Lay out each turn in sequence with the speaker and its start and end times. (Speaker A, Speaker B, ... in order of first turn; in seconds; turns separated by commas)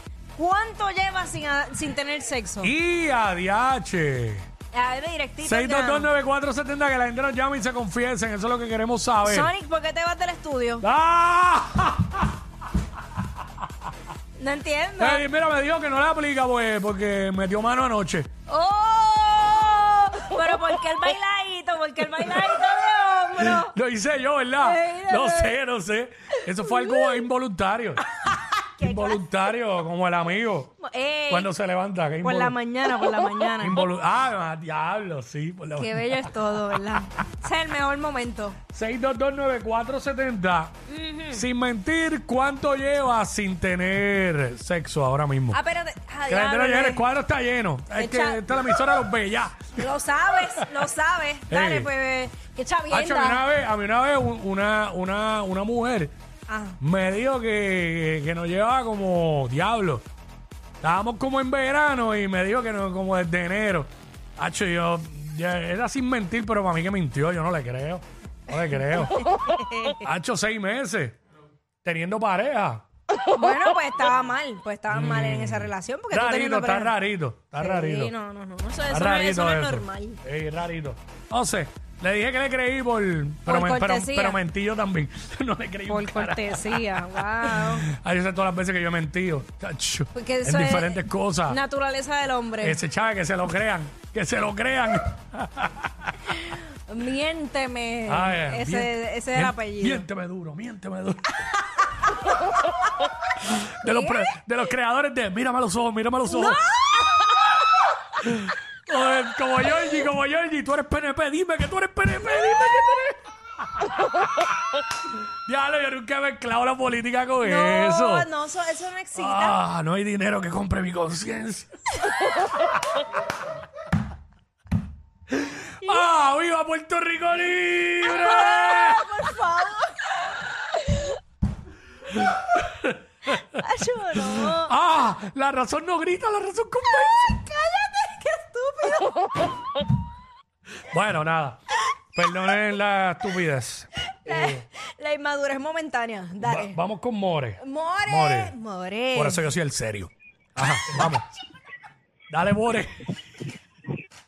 Speaker A: 0.4-2.7, Speaker B: 2.6-4.5, Speaker A: 4.7-6.1, Speaker B: 5.4-9.5, Speaker A: 9.2-10.8, Speaker B: 10.8-12.3, Speaker A: 14.4-15.2, Speaker B: 15.0-18.3, Speaker A: 18.5-23.7, Speaker B: 23.4-28.0, Speaker A: 24.6-25.6, Speaker A: 26.6-27.2, Speaker A: 28.2-29.2, Speaker B: 28.8-30.8, Speaker A: 30.8-31.5, Speaker B: 31.3-32.6, Speaker A: 32.2-33.9, Speaker B: 33.6-36.3, Speaker A: 35.8-38.6, Speaker B: 38.7-40.7, Speaker A: 40.9-41.5, Speaker B: 41.3-45.6, Speaker A: 45.5-47.1, Speaker B: 46.3-49.9, Speaker A: 47.9-48.5, Speaker A: 49.8-53.4, Speaker B: 51.5-51.9, Speaker B: 52.9-56.1, Speaker A: 56.5-56.8, Speaker B: 56.8-60.0, Speaker B: 60.8-69.3, Speaker A: 69.1-70.0, Speaker B: 70.0-71.2, Speaker B: 71.8-72.8, Speaker A: 73.3-77.0, Speaker B: 74.9-78.1, Speaker A: 77.6-80.2, Speaker B: 78.9-91.6, Speaker A: 83.5-84.4, Speaker A: 85.9-87.9, Speaker A: 90.1-92.8, Speaker B: 92.6-96.2, Speaker A: 96.3-100.0, Speaker B: 98.1-102.2, Speaker B: 103.4-106.7, Speaker A: 103.9-104.2, Speaker A: 106.3-107.5, Speaker B: 108.1-118.3, Speaker A: 117.4-119.6, Speaker B: 119.2-121.7, Speaker B: 125.3-129.2, Speaker A: 128.0-131.2, Speaker B: 132.1-133.3, Speaker A: 133.3-134.7, Speaker B: 134.2-137.3, Speaker A: 137.0-139.5, Speaker B: 140.8-141.6, Speaker B: 142.1-144.7, Speaker A: 144.2-146.8, Speaker B: 146.4-148.6, Speaker A: 147.6-149.4, Speaker B: 149.2-151.3, Speaker B: 152.3-153.1